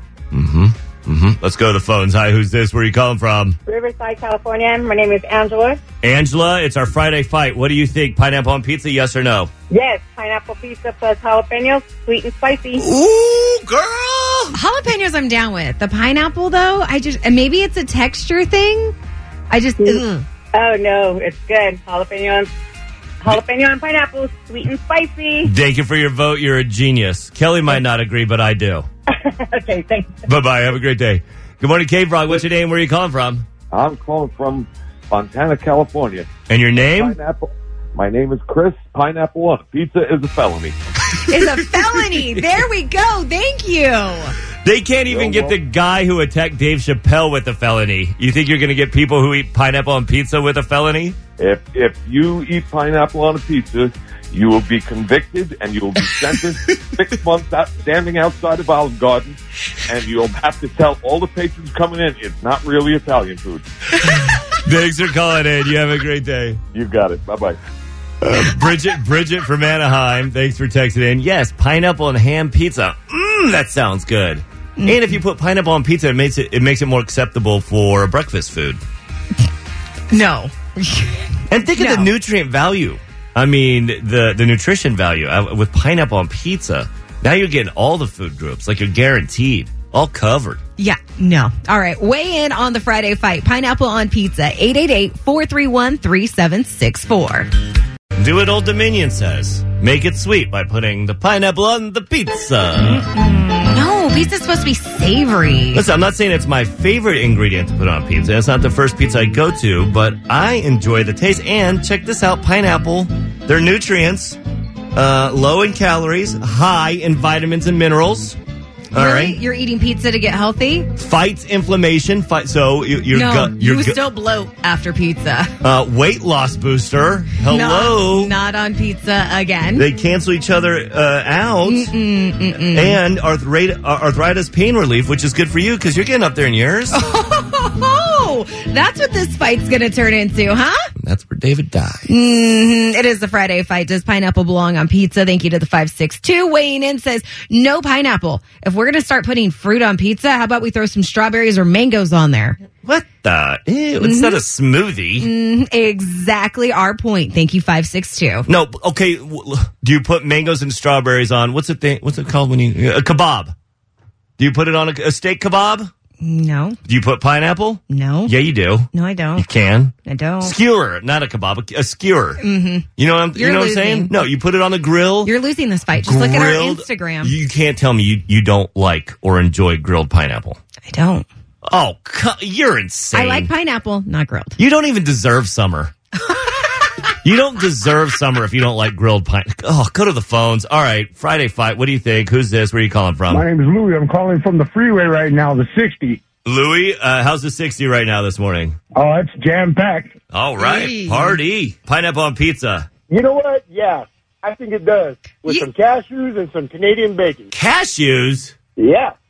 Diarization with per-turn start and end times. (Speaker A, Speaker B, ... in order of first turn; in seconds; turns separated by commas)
Speaker A: 0.3-3.6, Speaker B: 3.7-5.8, Speaker A: 6.0-9.5, Speaker B: 9.7-12.8, Speaker A: 12.8-14.6, Speaker C: 14.5-18.9, Speaker C: 19.5-20.2, Speaker B: 19.8-22.5, Speaker B: 23.2-25.5, Speaker A: 25.4-28.9, Speaker B: 29.2-30.2, Speaker A: 30.2-33.5, Speaker D: 33.7-36.3, Speaker A: 36.5-37.2, Speaker D: 36.9-40.8, Speaker A: 41.1-42.4, Speaker C: 41.1-44.3, Speaker A: 44.6-51.2, Speaker D: 45.1-45.6, Speaker D: 51.4-63.7, Speaker A: 56.1-56.8, Speaker A: 64.6-66.6, Speaker D: 66.7-67.6, Speaker A: 68.2-78.8, Speaker C: 74.8-75.1, Speaker C: 80.1-82.1, Speaker A: 81.5-90.6, Speaker C: 90.8-97.5, Speaker A: 98.2-103.0, Speaker C: 102.8-105.8, Speaker A: 105.7-114.4, Speaker A: 114.9-118.4, Speaker A: 118.9-119.4, Speaker C: 118.9-120.9, Speaker A: 121.0-124.0, Speaker C: 123.1-125.5, Speaker A: 125.6-128.3, Speaker C: 127.5-129.9, Speaker A: 129.8-131.9, Speaker C: 131.7-133.0, Speaker A: 132.7-137.0, Speaker C: 136.9-140.9, Speaker A: 141.0-142.0, Speaker C: 142.1-152.6, Speaker A: 152.8-155.3, Speaker C: 154.0-154.4, Speaker C: 155.2-158.5, Speaker A: 158.5-163.5, Speaker A: 164.4-165.9, Speaker C: 166.2-166.8, Speaker A: 166.8-172.4, Speaker C: 167.9-168.3, Speaker C: 168.9-169.5, Speaker C: 170.0-170.5, Speaker C: 172.4-174.1, Speaker A: 173.0-175.3, Speaker C: 175.2-177.3, Speaker A: 175.9-180.6, Speaker C: 180.9-181.3, Speaker A: 181.7-183.5, Speaker C: 183.1-184.6, Speaker A: 184.6-185.9, Speaker C: 186.2-187.0, Speaker A: 187.2-193.5, Speaker E: 193.3-196.2, Speaker A: 196.4-198.8, Speaker E: 198.9-200.1, Speaker A: 200.3-202.9, Speaker C: 200.6-201.4, Speaker E: 203.1-207.5, Speaker A: 207.5-208.5, Speaker E: 208.8-209.1